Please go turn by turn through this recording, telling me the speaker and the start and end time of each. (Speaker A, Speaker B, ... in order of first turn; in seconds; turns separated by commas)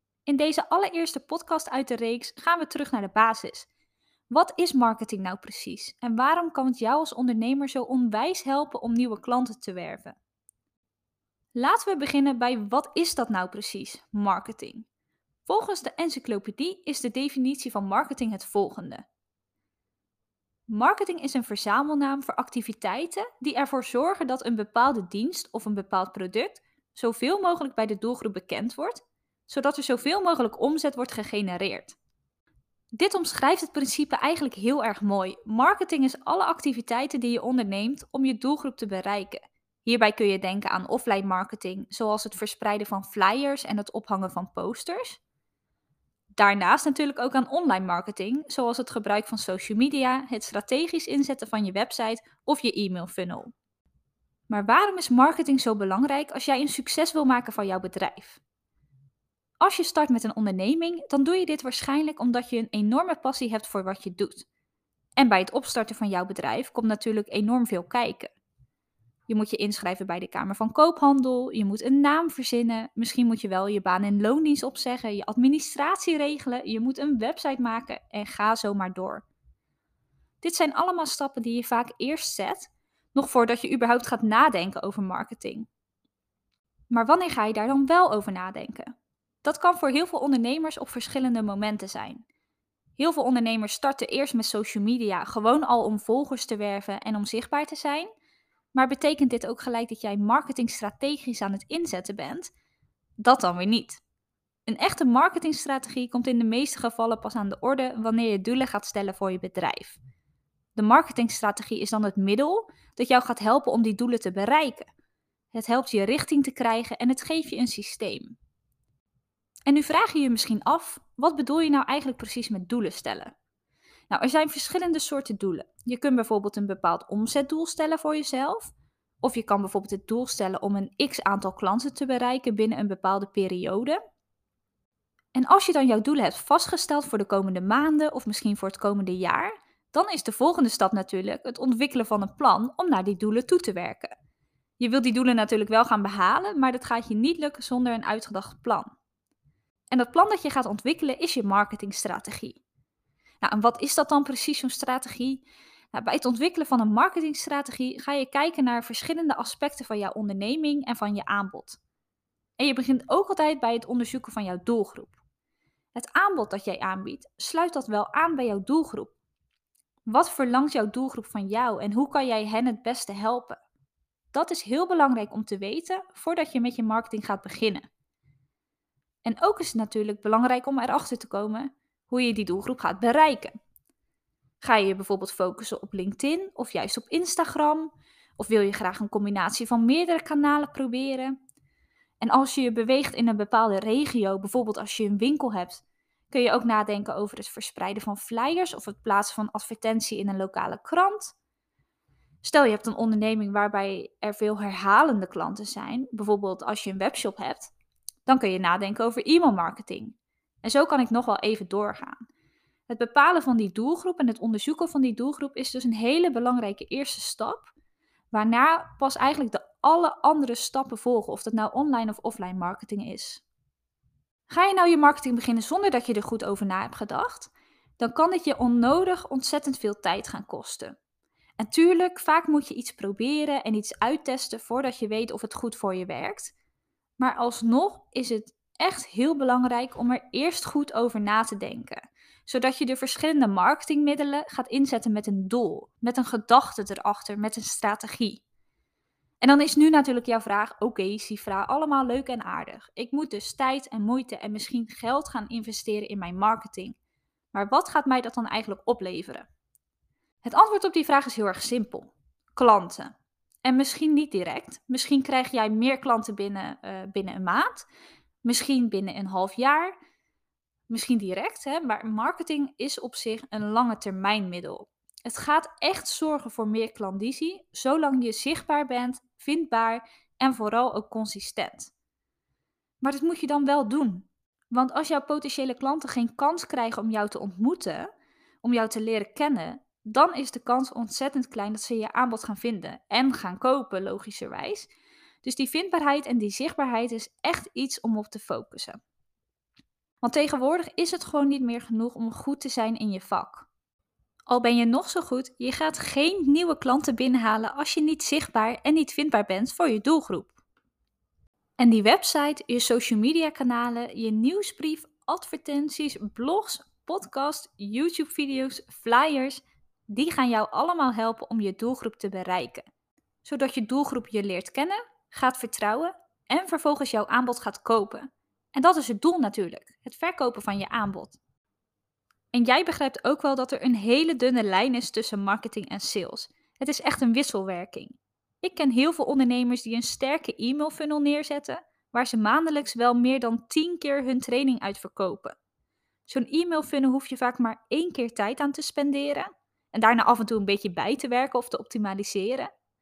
Speaker A: 0.3-3.7, Speaker A: 4.3-10.2, Speaker A: 11.6-14.9, Speaker A: 15.5-19.1, Speaker A: 20.7-32.0, Speaker A: 33.0-45.2, Speaker A: 46.4-53.5, Speaker A: 54.5-58.4, Speaker A: 59.6-64.5, Speaker A: 65.2-68.3, Speaker A: 69.3-79.2, Speaker A: 80.4-85.7, Speaker A: 86.9-88.9, Speaker A: 89.4-92.2, Speaker A: 93.0-98.1, Speaker A: 98.7-102.5, Speaker A: 103.2-104.0, Speaker A: 104.7-110.0, Speaker A: 110.8-114.9, Speaker A: 115.5-118.4, Speaker A: 119.7-123.3, Speaker A: 124.1-134.0, Speaker A: 135.3-144.1, Speaker A: 144.8-148.9, Speaker A: 149.9-152.6, Speaker A: 153.4-155.4, Speaker A: 155.9-161.8, Speaker A: 162.6-165.2, Speaker A: 165.9-169.2, Speaker A: 170.1-173.6, Speaker A: 174.3-177.9, Speaker A: 179.2-183.5, Speaker A: 184.6-191.4, Speaker A: 192.2-201.3, Speaker A: 202.4-207.7, Speaker A: 208.3-212.2, Speaker A: 212.9-217.7, Speaker A: 218.3-223.4, Speaker A: 224.5-231.0, Speaker A: 231.6-236.5, Speaker A: 237.2-248.4, Speaker A: 249.4-257.0, Speaker A: 257.5-259.5, Speaker A: 260.4-263.1, Speaker A: 263.6-267.9, Speaker A: 268.4-270.0, Speaker A: 270.9-281.9, Speaker A: 283.0-288.1, Speaker A: 288.6-294.9, Speaker A: 295.4-299.0, Speaker A: 300.2-303.7, Speaker A: 304.5-310.6, Speaker A: 311.8-322.9, Speaker A: 323.4-331.4, Speaker A: 332.5-345.6, Speaker A: 346.3-352.7